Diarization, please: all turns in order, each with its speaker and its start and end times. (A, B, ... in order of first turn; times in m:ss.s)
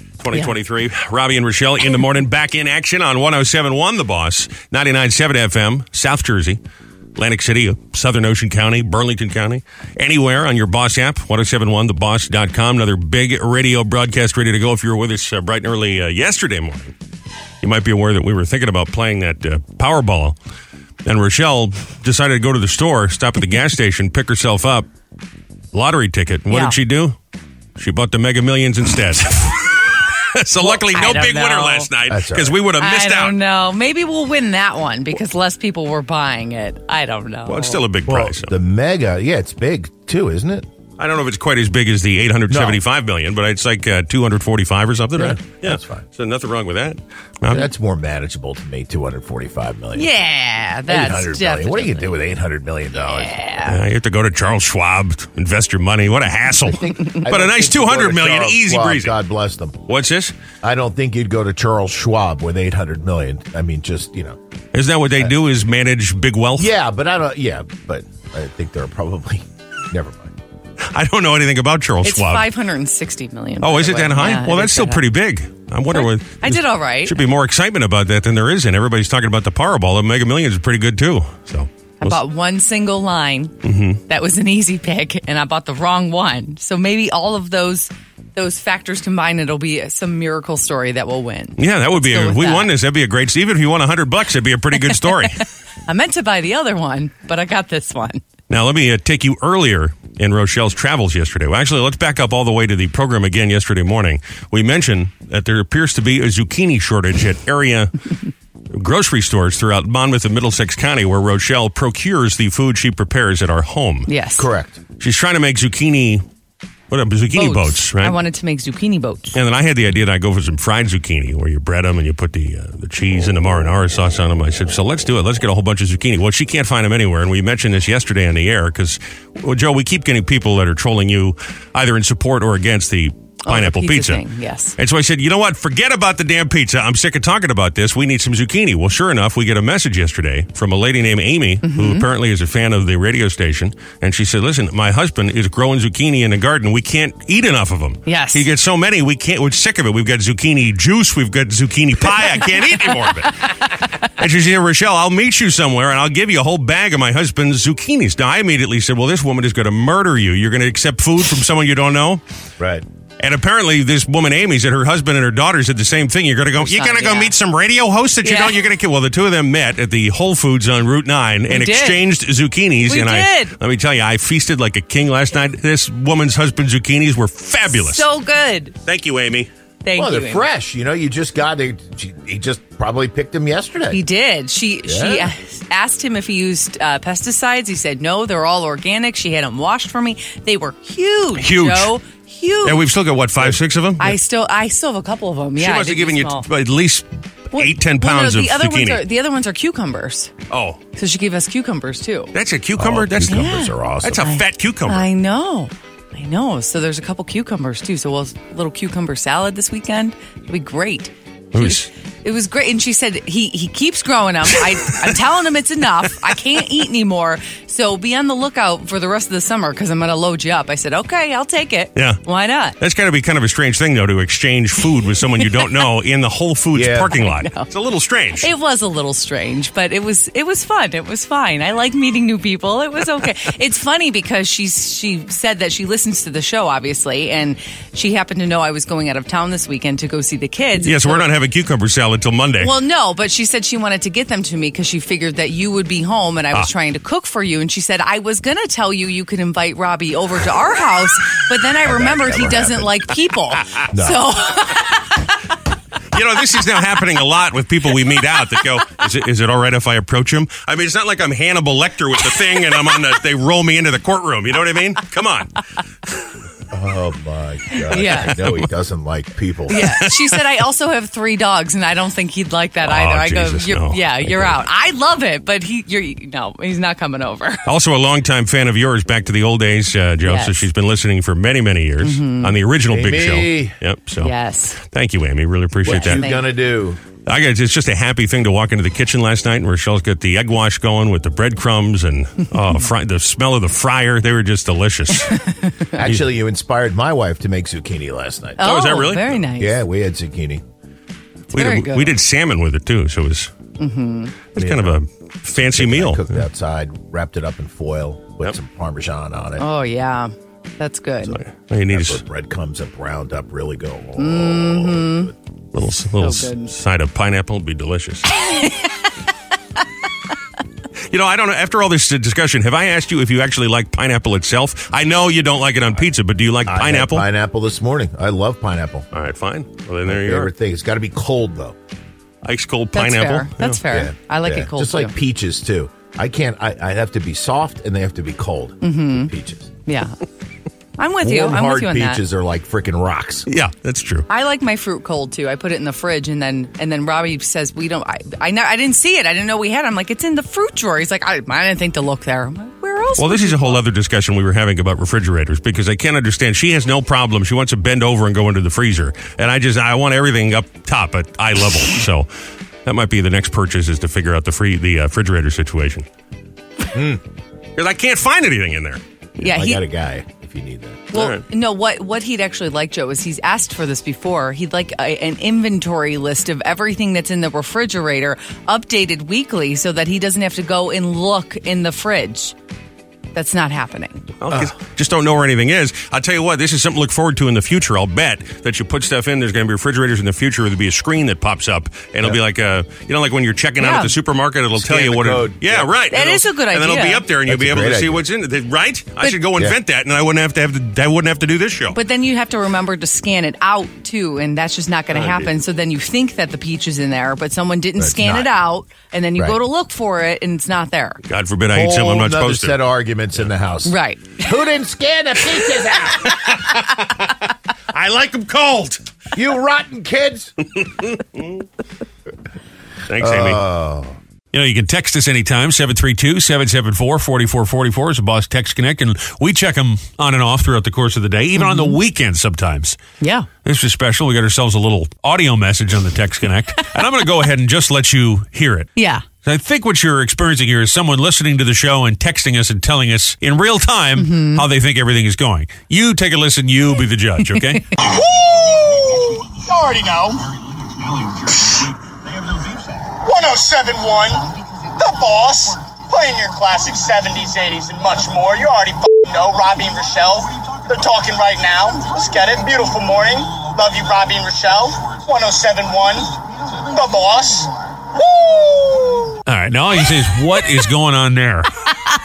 0:00.2-0:06.6 A
0:07.2-0:16.9 A
0:17.6-0:20.4 A
0:21.0-0:24.9 A
0:25.7-0:27.2 A
0:26.5-0:26.8 B
0:27.8-0:29.8 A
0:30.3-0:33.4 A
0:30.6-0:31.9 B
0:32.1-0:32.6 C
0:32.8-0:37.8 B
0:37.5-0:38.5 A
0:38.1-0:40.7 C
0:41.0-0:47.7 A
0:42.5-0:42.8 C
0:45.2-0:46.0 C
0:47.5-0:50.1 C
0:50.0-0:52.1 B
0:50.9-0:53.4 C
0:52.9-0:53.8 B
0:53.6-0:59.2 A
0:56.7-0:57.3 B
0:57.2-0:59.8 C
0:59.9-1:00.3 A
1:00.6-1:04.4 C
1:04.7-1:06.7 A
1:06.6-1:10.4 C
1:10.9-1:12.5 A
1:12.0-1:15.0 B
1:13.6-1:22.2 A
1:15.9-1:17.2 B
1:22.0-1:23.6 B
1:23.6-1:24.0 A
1:24.1-1:32.7 B
1:31.6-1:35.4 A
1:35.9-1:38.2 B
1:38.5-1:47.9 A
1:48.7-1:54.1 A
1:54.1-1:54.5 B
1:54.4-1:54.8 C
1:55.0-1:56.2 A
1:56.9-1:58.2 A
1:57.4-1:59.4 B
1:59.3-2:14.2 A
2:13.5-2:14.8 B
2:14.8-2:33.5 A
2:21.6-2:22.1 B
2:28.1-2:28.5 B
2:34.2-2:42.2 A
2:42.6-2:42.8 C
2:43.2-2:58.1 A
2:46.6-2:47.3 B
2:48.2-2:48.6 B
2:51.5-2:52.0 B
2:52.8-2:53.6 B
2:57.7-2:58.8 B
2:58.8-2:59.5 A
2:59.8-3:00.5 B
3:00.0-3:04.0 C
3:03.9-3:12.8 B
3:04.8-3:05.3 C
3:11.4-3:11.9 A
3:12.6-3:14.2 A
3:14.0-3:16.4 B
3:15.6-3:19.0 A
3:17.5-3:20.3 B
3:20.5-3:20.8 A
3:21.0-3:22.3 B
3:22.3-3:23.5 A
3:22.8-3:24.2 C
3:23.3-3:42.8 B
3:24.0-3:25.0 A
3:31.5-3:31.9 A
3:42.0-3:42.2 A
3:42.8-3:48.5 A
3:46.7-3:47.1 C
3:47.2-3:47.7 B
3:48.4-4:01.3 B
4:00.8-4:02.7 A
4:02.6-4:15.2 B
4:11.8-4:12.9 C
4:13.9-4:14.2 C
4:16.1-4:25.5 A
4:26.7-4:29.9 C
4:27.8-4:28.4 B
4:28.3-4:28.7 A
4:29.7-4:37.7 B
4:29.8-4:30.4 A
4:32.8-4:34.5 A
4:37.7-4:46.3 A
4:40.2-4:40.7 B
4:42.0-4:42.5 B
4:42.9-4:43.7 C
4:44.2-4:44.8 B
4:45.8-4:47.0 C
4:45.9-4:46.4 B
4:47.3-4:55.4 A
4:55.3-4:56.3 B
4:56.0-4:58.7 C
4:58.6-4:59.8 B
4:58.6-4:59.4 A
4:59.6-5:00.6 C
5:01.5-5:02.1 B
5:01.5-5:03.5 A
5:03.8-5:04.4 B
5:04.6-5:06.3 A
5:04.6-5:05.0 C
5:05.6-5:09.6 C
5:09.6-5:11.4 B
5:11.2-5:15.3 C
5:11.4-5:12.2 A
5:14.2-5:15.3 B
5:15.8-5:18.3 A
5:16.2-5:16.8 B
5:18.3-5:19.1 B
5:21.1-5:27.3 A
5:26.7-5:29.1 C
5:29.1-5:30.5 A
5:30.1-5:31.8 C
5:32.4-5:33.8 A
5:32.9-5:35.1 B
5:33.9-5:39.7 C
5:38.8-5:39.3 B
5:39.9-5:40.2 B
5:41.0-5:42.2 B
5:41.2-5:43.5 C
5:43.5-5:44.3 A
5:44.3-5:53.8 B
5:53.2-6:02.3 A
6:02.9-6:06.1 A
6:06.9-6:07.2 C
6:07.8-6:09.0 A
6:09.4-6:09.8 B
6:09.4-6:11.1 C
6:11.1-6:22.6 B
6:11.1-6:11.4 A
6:23.4-6:24.3 B
6:24.4-6:42.0 A
6:33.8-6:34.1 B
6:34.8-6:35.9 C
6:36.1-6:37.2 B
6:37.4-6:38.2 C
6:41.9-6:51.2 B
6:45.1-6:45.5 C
6:48.0-6:48.5 C
6:51.3-6:52.8 A
6:51.7-6:56.4 C
6:53.9-6:54.5 B
6:56.2-6:57.3 A
6:57.9-6:59.0 A
6:59.3-7:00.5 C
7:01.0-7:01.6 A
7:03.1-7:03.6 A
7:03.2-7:04.2 C
7:04.5-7:13.0 A
7:11.6-7:12.0 B
7:13.2-7:13.5 B
7:13.6-7:18.9 A
7:19.0-7:19.3 B
7:19.4-7:27.9 A
7:24.2-7:24.6 B
7:27.5-7:27.8 B
7:28.0-7:30.4 D
7:31.0-7:31.9 A
7:33.2-7:49.3 D
7:49.5-7:51.7 A